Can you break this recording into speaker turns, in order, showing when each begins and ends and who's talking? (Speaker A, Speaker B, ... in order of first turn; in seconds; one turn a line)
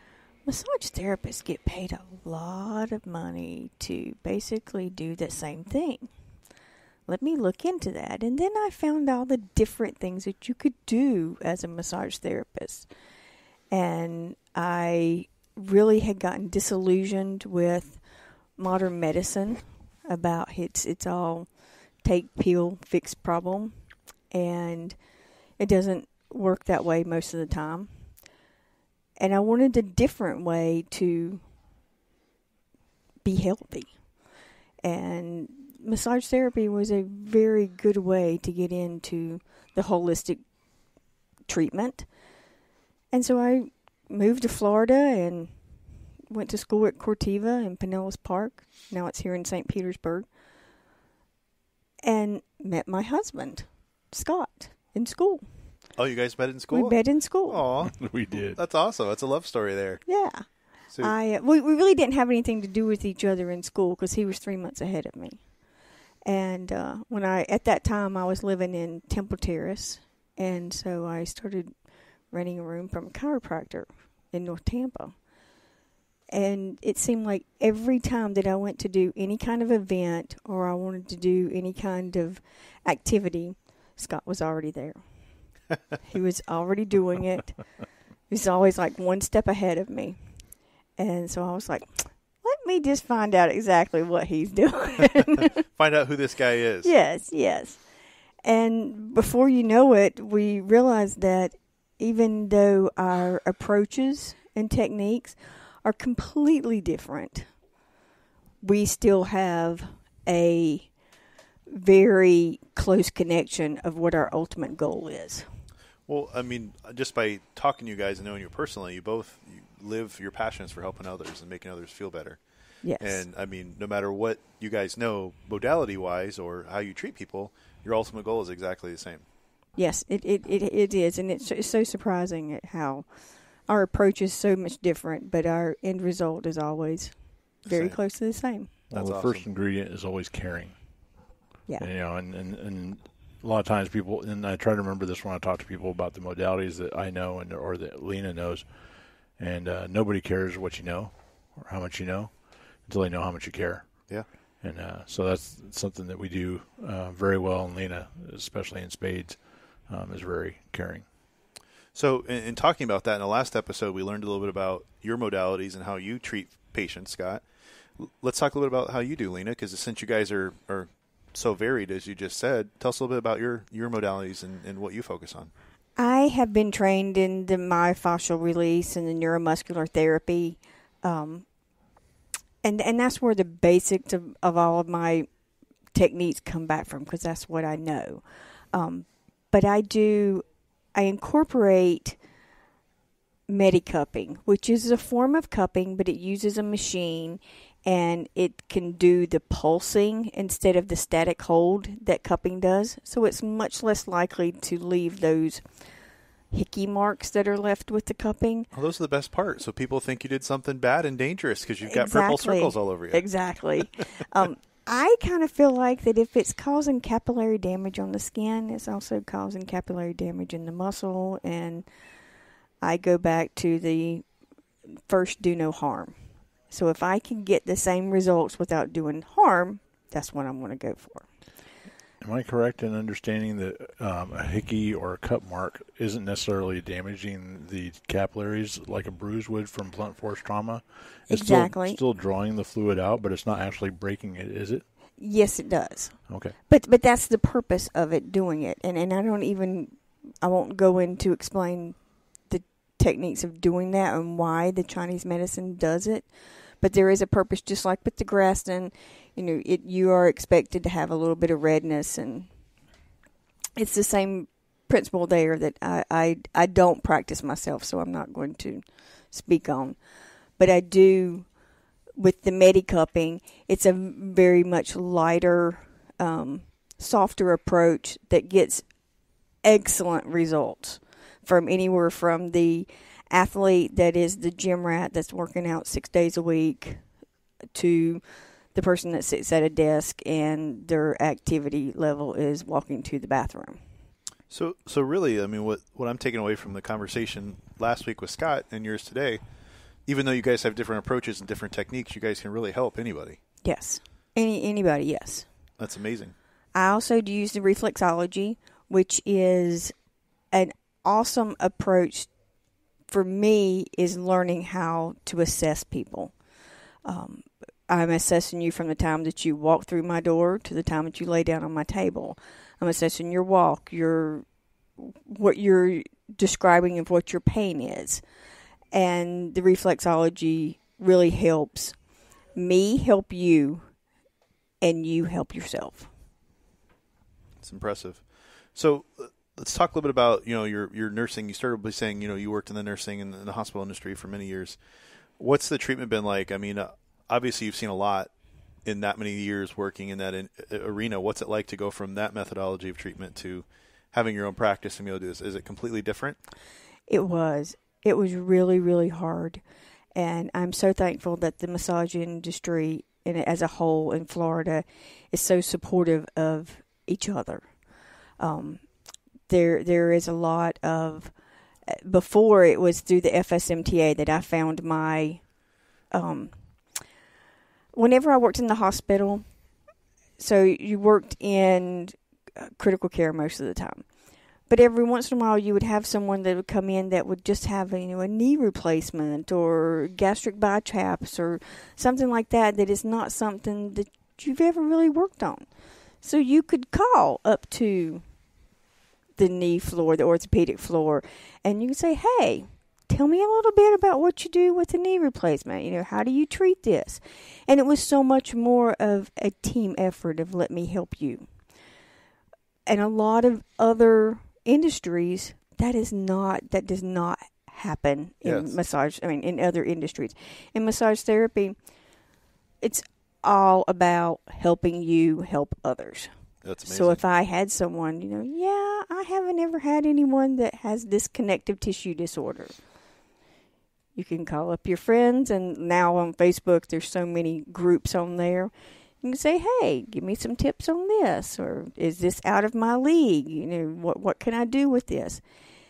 Speaker A: 0.5-6.1
Speaker A: 7.1-12.9
Speaker A: 13.7-18.0
Speaker A: 18.6-21.5
Speaker A: 22.0-23.8
Speaker A: 24.3-25.0
Speaker A: 25.6-28.1
Speaker A: 29.2-31.4
Speaker A: 33.2-34.0
Speaker A: 34.8-40.4
Speaker A: 41.5-42.1
Speaker A: 43.1-45.5
Speaker A: 46.3-50.3
Speaker A: 52.0-55.4
Speaker B: 56.0-60.0
Speaker A: 56.7-57.6
Speaker C: 57.8-58.6
Speaker A: 60.1-60.5
Speaker A: 61.0-65.4
Speaker A: 66.2-71.7
Speaker A: 72.3-75.2
Speaker A: 76.3-85.0
Speaker A: 86.0-87.6
Speaker A: 88.3-90.2
Speaker A: 91.0-95.6
Speaker B: 95.7-96.9
Speaker A: 96.8-97.8
Speaker A: 98.4-107.5
Speaker A: 108.6-110.9
Speaker A: 111.7-115.5
Speaker B: 116.1-122.4
Speaker A: 122.8-123.2
Speaker B: 123.0-129.2
Speaker A: 129.8-133.1
Speaker A: 133.7-138.7
Speaker B: 137.7-138.0
Speaker B: 138.9-139.5
Speaker C: 138.9-140.8
Speaker C: 141.8-148.7
Speaker C: 149.3-161.1
Speaker B: 161.9-167.4
Speaker B: 168.0-175.5
Speaker A: 176.0-181.4
Speaker A: 182.6-185.3
Speaker A: 185.9-192.2
Speaker A: 193.5-205.6
Speaker A: 206.5-208.7
Speaker B: 208.7-213.3
Speaker A: 211.8-221.9
Speaker A: 222.8-224.2
Speaker A: 225.0-226.2
Speaker A: 226.7-231.3
Speaker C: 232.2-244.8
Speaker A: 241.3-242.0
Speaker A: 245.2-262.5
Speaker C: 246.3-246.6
Speaker A: 263.8-270.0
Speaker A: 270.6-271.5
Speaker A: 272.2-278.9
Speaker A: 279.6-287.0
Speaker A: 287.7-288.2
Speaker A: 288.7-293.8
Speaker B: 294.5-299.4
Speaker B: 300.1-303.4
Speaker A: 303.6-305.5
Speaker B: 305.8-306.3
Speaker A: 306.7-309.9
Speaker A: 310.5-312.3
Speaker A: 313.1-316.3
Speaker A: 317.1-324.4
Speaker A: 325.0-328.2
Speaker A: 328.9-332.0
Speaker A: 332.6-333.9
Speaker A: 334.8-336.1
Speaker B: 337.6-338.2
Speaker B: 338.8-344.8
Speaker B: 345.4-348.3
Speaker B: 348.9-356.4
Speaker A: 357.1-359.6
Speaker A: 360.1-367.7
Speaker A: 368.4-368.8
Speaker A: 369.5-371.3
Speaker A: 371.9-375.4
Speaker A: 376.1-376.6
Speaker A: 377.9-379.4
Speaker A: 380.4-384.1
Speaker A: 384.7-395.7
Speaker A: 396.2-398.2
Speaker A: 399.4-411.5
Speaker A: 412.9-421.8
Speaker B: 418.4-418.8
Speaker A: 422.8-426.3
Speaker B: 426.6-427.2
Speaker A: 426.9-432.7
Speaker A: 434.1-445.4